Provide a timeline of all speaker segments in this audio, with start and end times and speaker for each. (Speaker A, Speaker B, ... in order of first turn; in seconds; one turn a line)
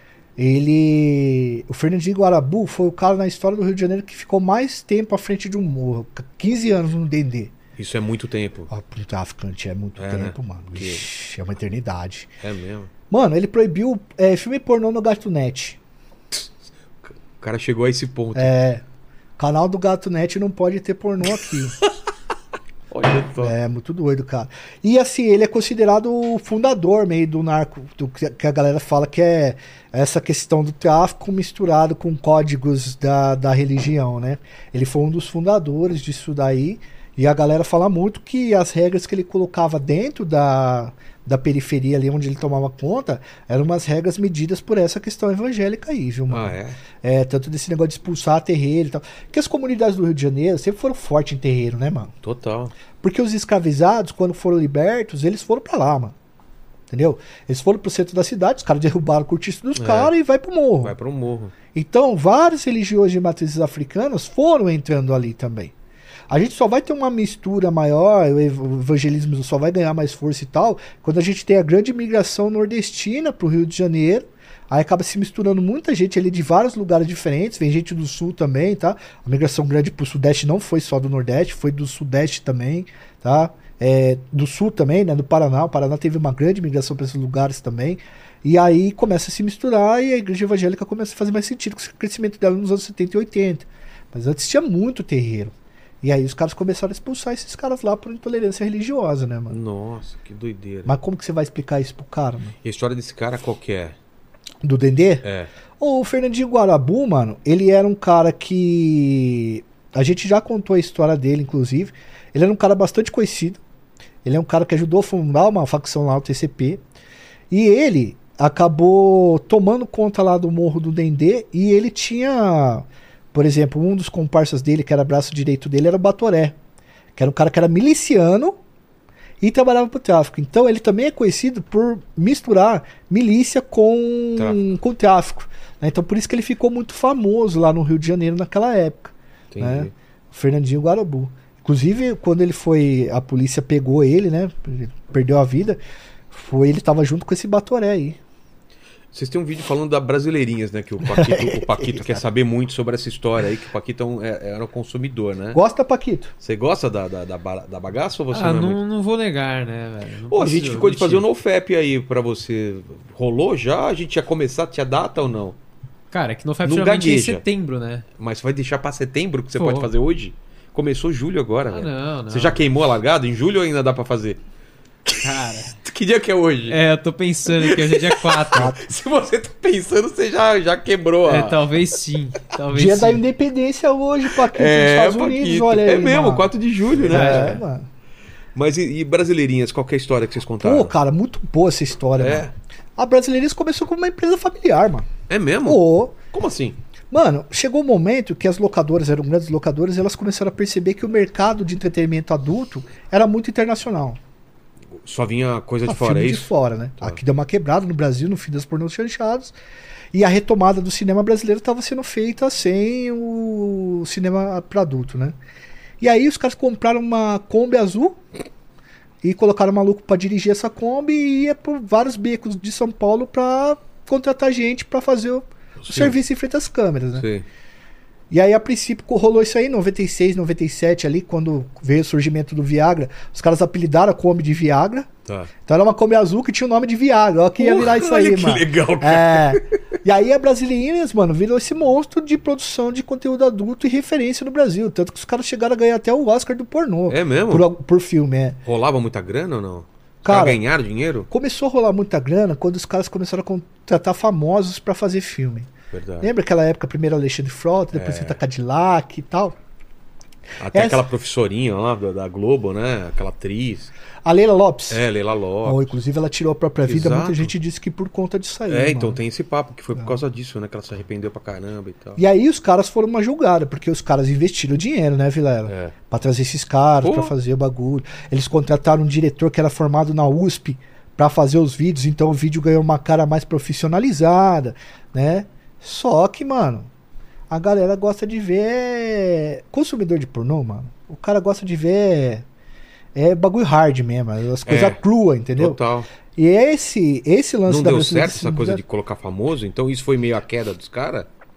Speaker A: 0.4-7.5
Speaker B: 7.8-8.7
Speaker A: 8.7-12.3
Speaker B: 10.0-11.0
Speaker B: 12.4-12.9
Speaker A: 13.1-15.8
Speaker B: 17.0-18.5
Speaker A: 18.3-18.8
Speaker A: 19.4-21.7
Speaker B: 22.9-23.5
Speaker A: 23.4-52.1
Speaker B: 46.3-46.8
Speaker B: 52.2-52.7
Speaker A: 53.0-56.1
Speaker A: 56.9-60.9
Speaker B: 59.8-60.1
Speaker B: 60.8-61.5
Speaker A: 61.7-65.7
Speaker A: 66.3-99.6
Speaker B: 99.5-100.9
Speaker A: 100.8-102.5
Speaker B: 102.6-103.9
Speaker A: 104.6-105.2
Speaker B: 105.2-105.5
Speaker A: 105.8-113.6
Speaker A: 114.2-116.8
Speaker A: 117.5-126.5
Speaker A: 127.2-128.6
Speaker A: 129.4-145.8
Speaker B: 139.5-139.9
Speaker A: 146.3-148.2
Speaker B: 149.1-155.6
Speaker A: 151.0-152.2
Speaker A: 155.5-156.3
Speaker B: 156.4-158.8
Speaker C: 158.3-161.2
Speaker B: 160.3-165.6
Speaker C: 166.1-168.1
Speaker B: 166.6-167.4
Speaker B: 168.2-174.4
Speaker C: 169.6-169.9
Speaker C: 171.7-172.6
Speaker B: 175.1-176.8
Speaker C: 175.2-175.8
Speaker C: 176.7-178.8
Speaker B: 177.5-181.6
Speaker A: 178.5-178.8
Speaker C: 181.2-183.2
Speaker A: 182.7-187.9
Speaker B: 184.5-187.6
Speaker C: 187.1-187.6
Speaker B: 188.5-190.9
Speaker A: 190.6-195.1
Speaker B: 192.2-192.5
Speaker B: 195.3-195.8
Speaker A: 195.6-196.2
Speaker B: 196.3-196.8
Speaker A: 197.1-204.2
Speaker B: 205.0-207.2
Speaker A: 205.8-209.5
Speaker A: 210.1-215.4
Speaker A: 216.0-218.2
Speaker A: 219.2-227.2
Speaker B: 225.8-226.2
Speaker B: 227.2-227.4
Speaker A: 228.3-235.1
Speaker A: 235.7-248.6
Speaker B: 237.6-239.7
Speaker B: 247.1-247.7
Speaker B: 248.7-251.3
Speaker A: 250.2-250.6
Speaker A: 251.3-259.6
Speaker B: 255.9-256.3
Speaker B: 257.9-258.4
Speaker B: 260.6-263.9
Speaker A: 260.7-261.0
Speaker A: 264.2-265.0
Speaker B: 264.9-265.9
Speaker A: 265.6-269.2
Speaker B: 266.8-267.5
Speaker B: 268.7-272.2
Speaker A: 272.2-286.9
Speaker B: 275.7-275.9
Speaker B: 277.0-277.3
Speaker A: 287.5-292.4
Speaker A: 293.1-295.8
Speaker B: 294.6-295.0
Speaker B: 295.6-296.1
Speaker A: 296.4-298.8
Speaker B: 297.7-301.3